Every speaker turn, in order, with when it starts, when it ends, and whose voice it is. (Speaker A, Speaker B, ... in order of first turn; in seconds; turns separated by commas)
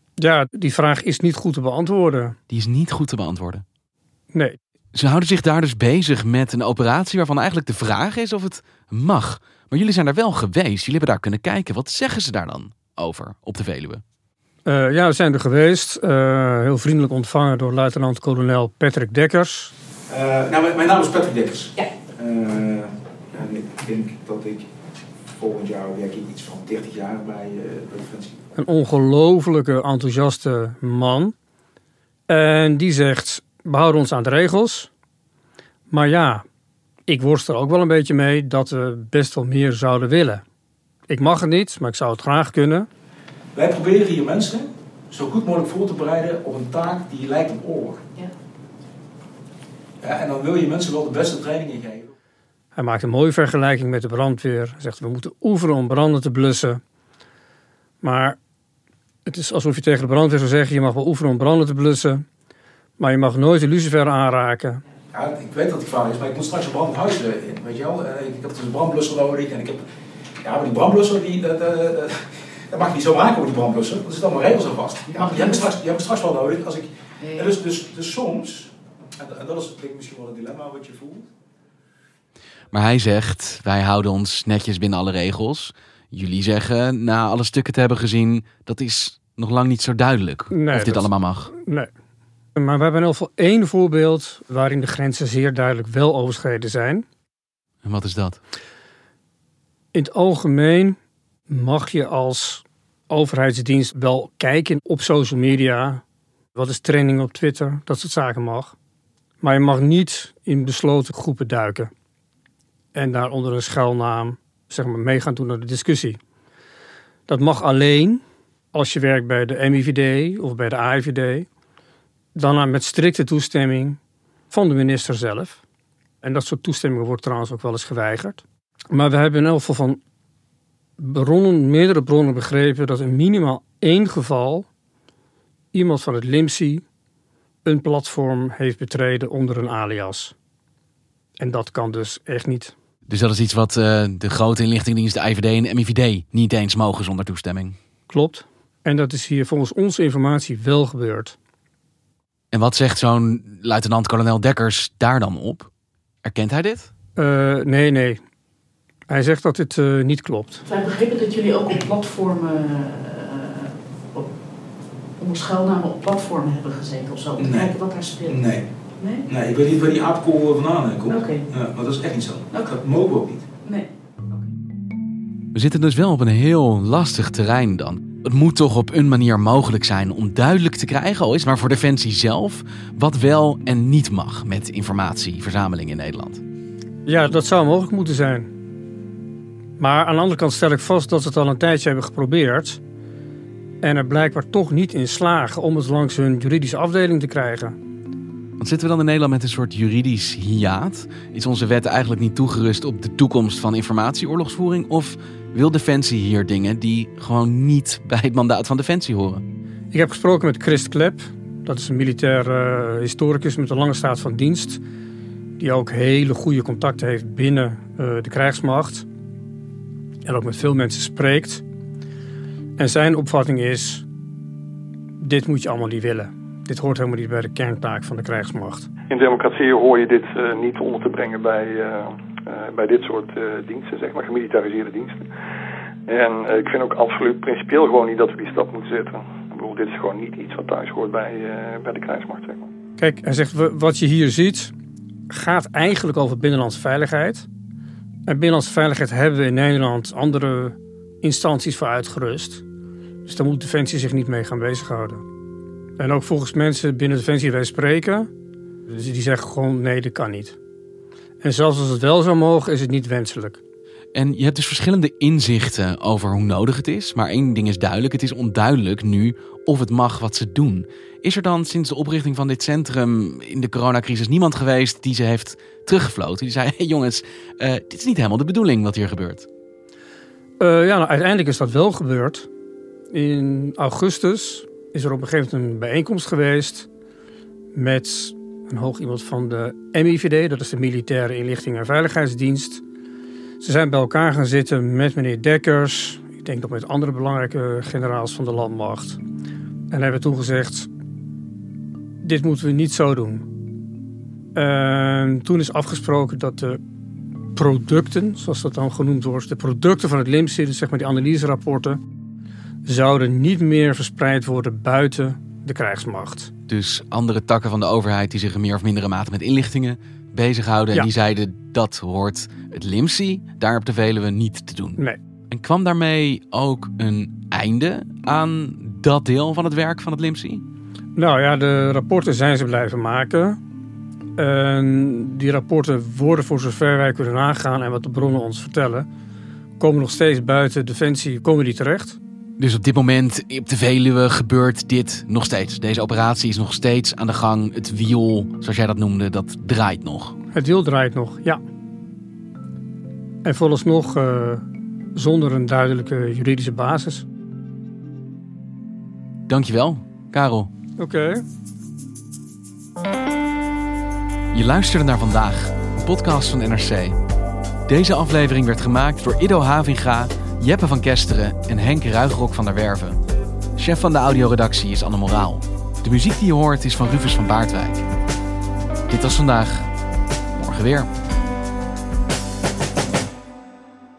Speaker A: 0.2-2.4, Speaker B: 2.5-3.6, Speaker A: 4.3-4.6, Speaker B: 4.9-14.0, Speaker A: 14.6-19.7, Speaker C: 20.1-24.6, Speaker C: 25.3-28.3, Speaker A: 28.6-31.3, Speaker A: 32.3-34.9, Speaker A: 35.9-36.4, Speaker A: 37.1-40.4, Speaker A: 41.1-42.9, Speaker C: 43.5-48.0, Speaker C: 50.0-52.1, Speaker A: 52.7-56.8, Speaker A: 58.0-58.4, Speaker A: 59.2-62.2, Speaker A: 63.0-64.8, Speaker C: 65.1-69.8, Speaker C: 70.4-81.2, Speaker D: 75.1-75.7, Speaker D: 77.3-77.6, Speaker B: 82.7-91.5, Speaker A: 90.5-91.9, Speaker A: 92.5-97.0, Speaker B: 97.8-98.4, Speaker A: 99.9-101.0, Speaker A: 101.5-106.0, Speaker A: 106.5-108.7, Speaker A: 109.4-111.9, Speaker A: 112.9-116.2, Speaker A: 117.3-118.2, Speaker A: 118.7-121.5, Speaker A: 122.3-124.0, Speaker A: 124.5-125.6, Speaker A: 126.2-130.0, Speaker A: 131.0-134.7, Speaker A: 135.7-136.8, Speaker A: 137.6-140.3, Speaker A: 141.4-142.7, Speaker B: 143.1-147.8, Speaker A: 148.1-151.3, Speaker B: 152.5-155.7, Speaker B: 156.2-156.9, Speaker A: 157.2-158.2, Speaker A: 159.1-160.6, Speaker D: 160.7-164.3, Speaker D: 165.2-168.5, Speaker C: 167.4-167.7, Speaker C: 168.3-168.6, Speaker D: 169.0-169.3, Speaker C: 169.3-173.4, Speaker D: 171.1-171.5, Speaker D: 172.5-172.8, Speaker B: 175.5-186.4, Speaker A: 187.1-188.5, Speaker A: 189.8-192.8, Speaker A: 193.8-197.8, Speaker B: 198.6-209.4, Speaker A: 209.9-214.8, Speaker A: 215.6-219.1, Speaker A: 220.2-221.6, Speaker A: 222.8-224.1, Speaker A: 225.2-228.9, Speaker E: 229.1-235.2, Speaker E: 236.1-242.6, Speaker A: 243.0-244.7, Speaker A: 245.3-247.5, Speaker A: 248.3-252.6, Speaker A: 253.2-255.2, Speaker A: 256.0-258.3, Speaker A: 258.9-260.6, Speaker A: 261.4-263.6, Speaker B: 264.1-279.5, Speaker A: 280.6-282.5, Speaker A: 283.1-286.9, Speaker A: 287.7-292.8, Speaker A: 293.6-299.2, Speaker A: 299.9-300.9, Speaker A: 302.2-303.5, Speaker A: 304.5-306.8, Speaker A: 307.5-312.0, Speaker A: 312.8-316.5, Speaker B: 316.7-325.0, Speaker B: 325.5-330.6, Speaker A: 331.1-333.6, Speaker A: 334.4-339.1, Speaker A: 339.8-342.2, Speaker B: 342.6-350.4, Speaker A: 350.5-351.6, Speaker A: 353.4-357.2, Speaker B: 359.5-360.7, Speaker A: 361.0-361.4, Speaker B: 364.5-367.1, Speaker B: 367.9-373.2, Speaker B: 373.8-378.1, Speaker B: 379.1-379.9, Speaker B: 380.6-381.1